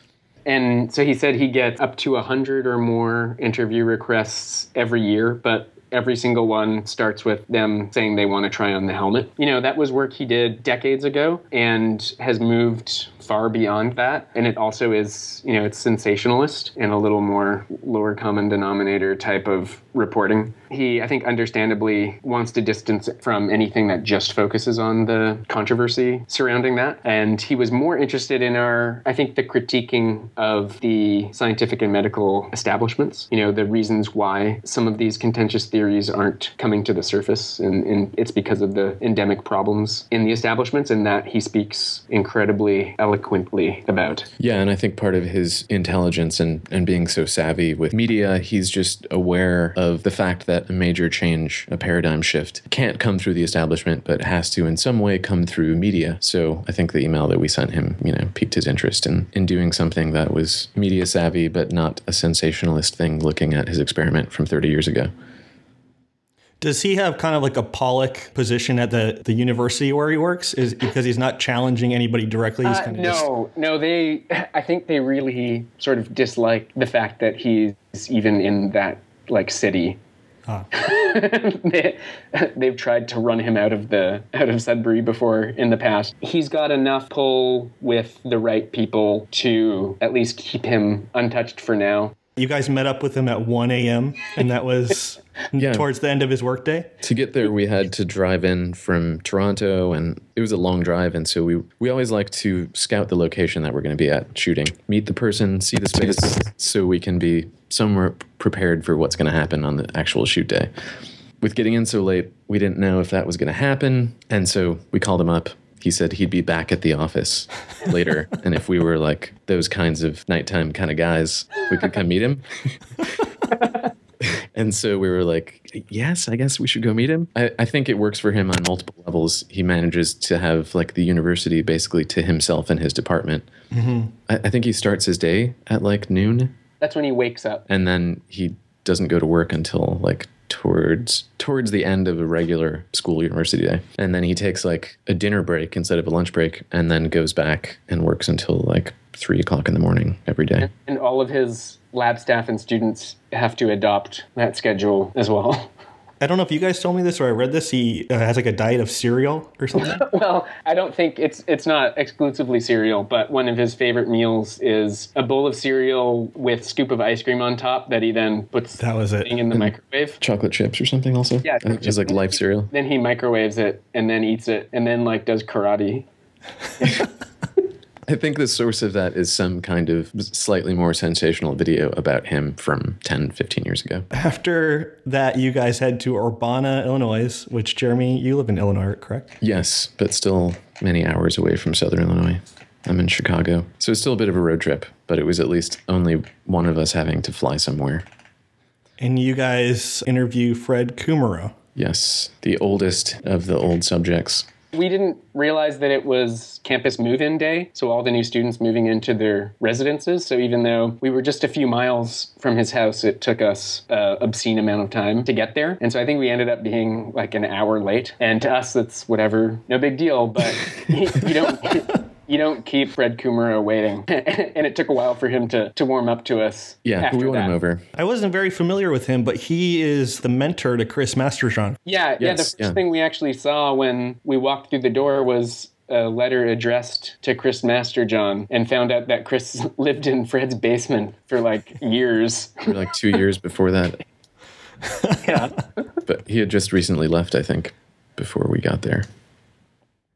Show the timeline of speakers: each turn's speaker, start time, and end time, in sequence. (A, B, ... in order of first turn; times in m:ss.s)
0:00.5-0:44.3 A
0:44.4-1:05.1 B
1:06.6-1:13.3 C
1:12.6-1:20.0 A
1:20.7-1:32.2 A
1:32.4-1:36.9 C
1:35.6-1:35.9 B
1:37.0-1:50.7 B
1:51.4-2:03.3 B
2:04.2-2:13.5 B
2:13.7-2:14.1 C
2:14.3-2:16.6 B
2:16.8-2:17.6 A
2:17.7-2:30.7 B
2:30.6-2:35.7 A
2:36.2-2:40.0 C
2:39.8-2:50.2 A
2:48.8-2:49.3 C
2:50.2-2:52.7 B
2:51.4-2:56.1 A
2:58.1-3:04.1 B
3:04.1-3:09.3 C
3:09.4-3:18.0 B
3:19.0-3:21.5 C
3:21.8-3:24.5 B
3:24.7-3:47.5 A
3:46.8-3:47.8 B
3:48.0-3:51.8 C
3:51.9-4:02.7 A
3:52.2-3:52.8 B
4:02.7-4:04.0 B
4:04.9-4:05.2 C
4:05.2-4:05.5 A
4:06.1-4:09.1 B